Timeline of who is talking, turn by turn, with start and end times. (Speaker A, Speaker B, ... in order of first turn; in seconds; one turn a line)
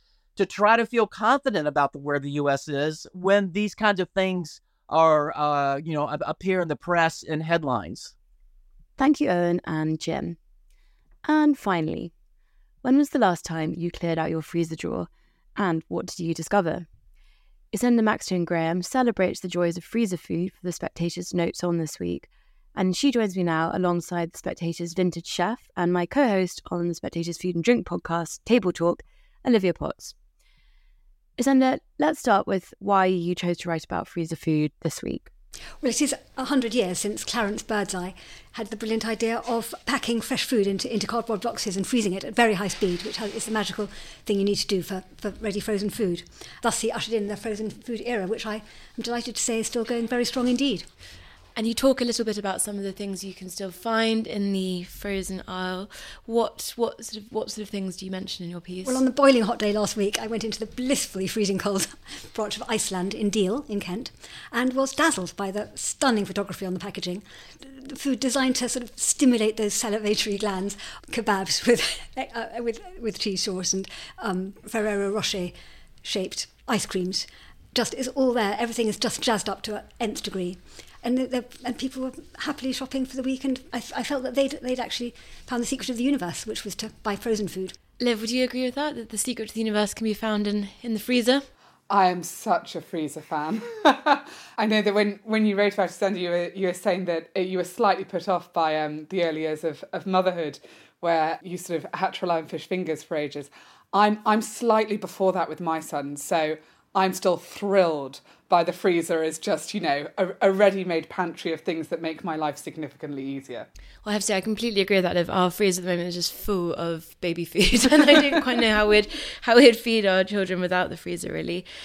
Speaker A: 0.3-8.1
Speaker B: 9.0-10.4
Speaker B: 11.2-12.1
Speaker B: 12.8-16.9
Speaker B: 17.7-30.1
Speaker B: 31.4-35.3
Speaker C: 35.8-50.9
Speaker D: 51.5-59.0
Speaker C: 58.8-87.8
Speaker D: 88.0-91.5
Speaker E: 91.9-113.7
Speaker D: 114.0-121.7